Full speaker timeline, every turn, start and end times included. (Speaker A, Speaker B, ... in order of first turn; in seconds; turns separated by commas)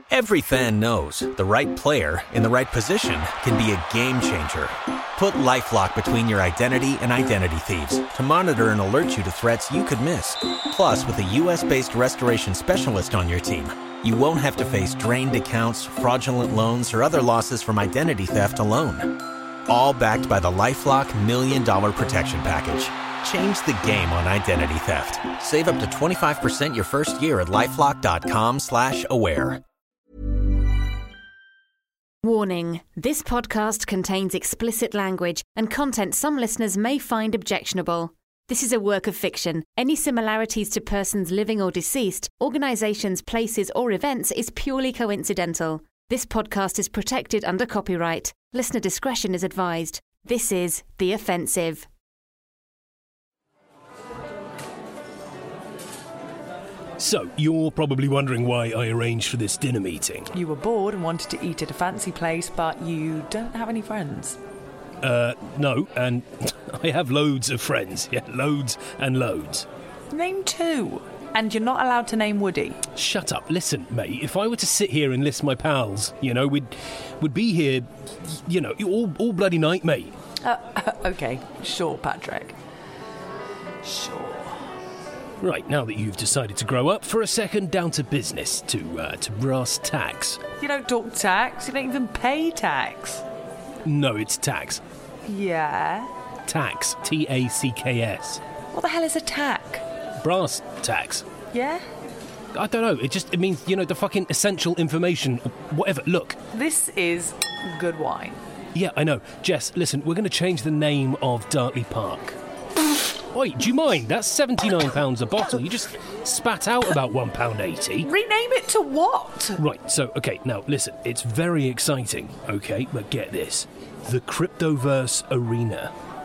Speaker A: 0.1-19.1, Speaker A: 19.7-29.6, Speaker B: 32.2-51.9, Speaker C: 57.0-60.3, Speaker D: 60.3-64.4, Speaker C: 65.0-69.7, Speaker D: 70.1-72.8, Speaker C: 72.9-80.1, Speaker D: 80.4-82.5, Speaker D: 83.8-84.7, Speaker C: 85.4-90.4, Speaker D: 90.6-93.2, Speaker C: 93.8-94.8, Speaker D: 95.3-96.1, Speaker C: 96.5-98.4, Speaker D: 98.7-99.8, Speaker C: 100.2-101.2, Speaker D: 101.5-101.8, Speaker C: 102.5-106.4, Speaker D: 106.5-108.4, Speaker C: 108.7-112.3, Speaker C: 113.3-118.1, Speaker D: 118.0-119.6, Speaker C: 119.6-125.9